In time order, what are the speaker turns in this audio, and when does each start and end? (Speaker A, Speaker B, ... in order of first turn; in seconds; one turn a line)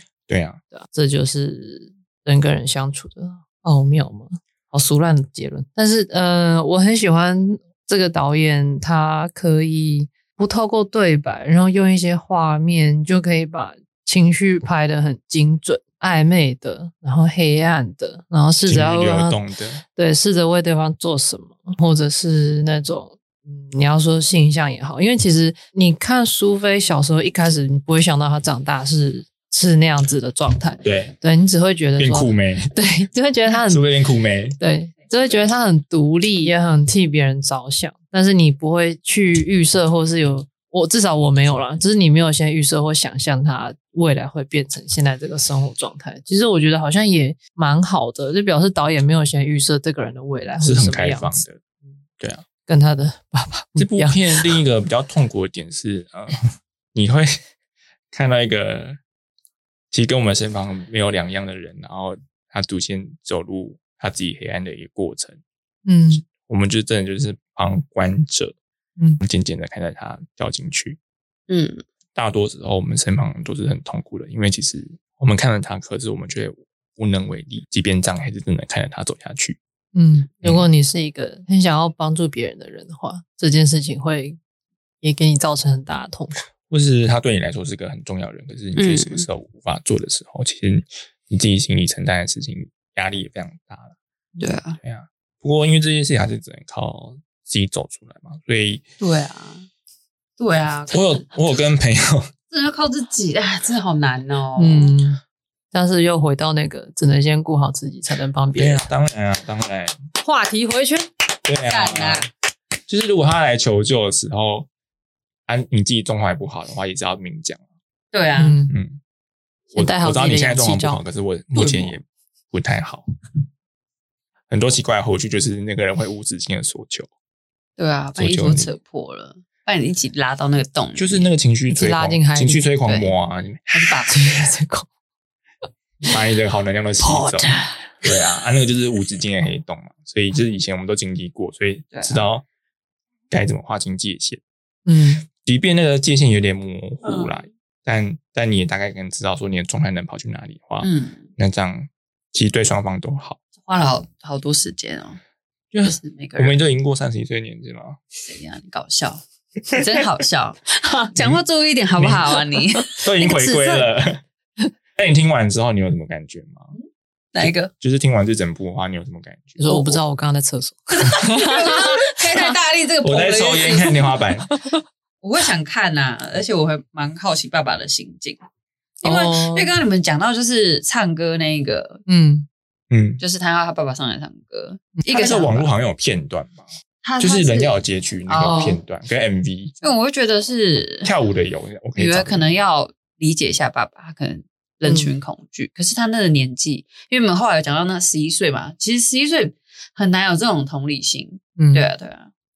Speaker A: 0.3-0.6
Speaker B: 0.7-19.4
Speaker A: 18.7-19.8
Speaker B: 19.9-33.9
Speaker A: 30.8-31.1
Speaker A: 32.0-32.7
Speaker A: 33.7-34.6
Speaker B: 34.6-51.4
Speaker A: 50.6-51.6
Speaker A: 52.2-52.5
Speaker B: 52.7-54.6
Speaker A: 53.8-57.4
Speaker A: 58.1-59.0
Speaker A: 59.9-65.4
Speaker B: 65.9-66.2
Speaker A: 66.2-68.6
Speaker A: 69.2-71.0
Speaker C: 71.5-71.8
Speaker A: 72.2-79.6
Speaker B: 80.0-84.4
Speaker B: 85.0-86.4
Speaker A: 86.7-94.0
Speaker C: 88.8-89.3
Speaker C: 94.4-94.8
Speaker A: 94.8-98.8
Speaker C: 99.0-99.7
Speaker C: 100.4-101.3
Speaker A: 100.9-102.3
Speaker C: 102.5-105.0
Speaker B: 104.6-105.2
Speaker B: 105.7-108.9
Speaker A: 108.5-110.0
Speaker B: 110.2-111.1
Speaker A: 111.5-112.3
Speaker C: 111.7-112.3
Speaker A: 112.9-114.7
Speaker A: 115.5-117.6
Speaker C: 118.1-118.6
Speaker B: 118.4-118.8
Speaker A: 118.7-119.0
Speaker B: 119.7-121.0
Speaker A: 119.8-123.1
Speaker B: 121.6-122.0
Speaker A: 124.5-127.1
Speaker C: 127.8-131.3
Speaker A: 128.2-128.7
Speaker A: 131.0-134.2
Speaker B: 131.7-132.7
Speaker C: 132.9-133.1
Speaker B: 133.7-134.9
Speaker A: 136.0-142.4
Speaker B: 137.0-137.9
Speaker C: 141.9-142.2
Speaker A: 143.3-144.4
Speaker B: 144.9-145.3
Speaker A: 145.4-153.4
Speaker C: 147.1-147.3
Speaker C: 150.8-151.3
Speaker C: 153.7-155.2
Speaker A: 155.7-158.0
Speaker C: 155.8-156.6
Speaker C: 158.2-163.9
Speaker A: 162.0-164.2
Speaker A: 165.0-166.7
Speaker C: 167.3-167.7
Speaker A: 167.4-170.0
Speaker B: 169.6-172.2
Speaker C: 171.0-174.2
Speaker A: 173.0-174.5
Speaker B: 174.5-174.8
Speaker C: 175.2-178.4
Speaker B: 179.0-179.7
Speaker C: 179.0-182.0
Speaker B: 182.1-182.5
Speaker A: 182.9-183.2
Speaker C: 183.2-185.7
Speaker A: 185.1-186.7
Speaker C: 187.0-188.8
Speaker A: 187.2-189.8
Speaker C: 189.8-191.1
Speaker A: 191.0-192.4
Speaker C: 192.0-202.3
Speaker B: 194.8-195.1
Speaker B: 201.6-201.9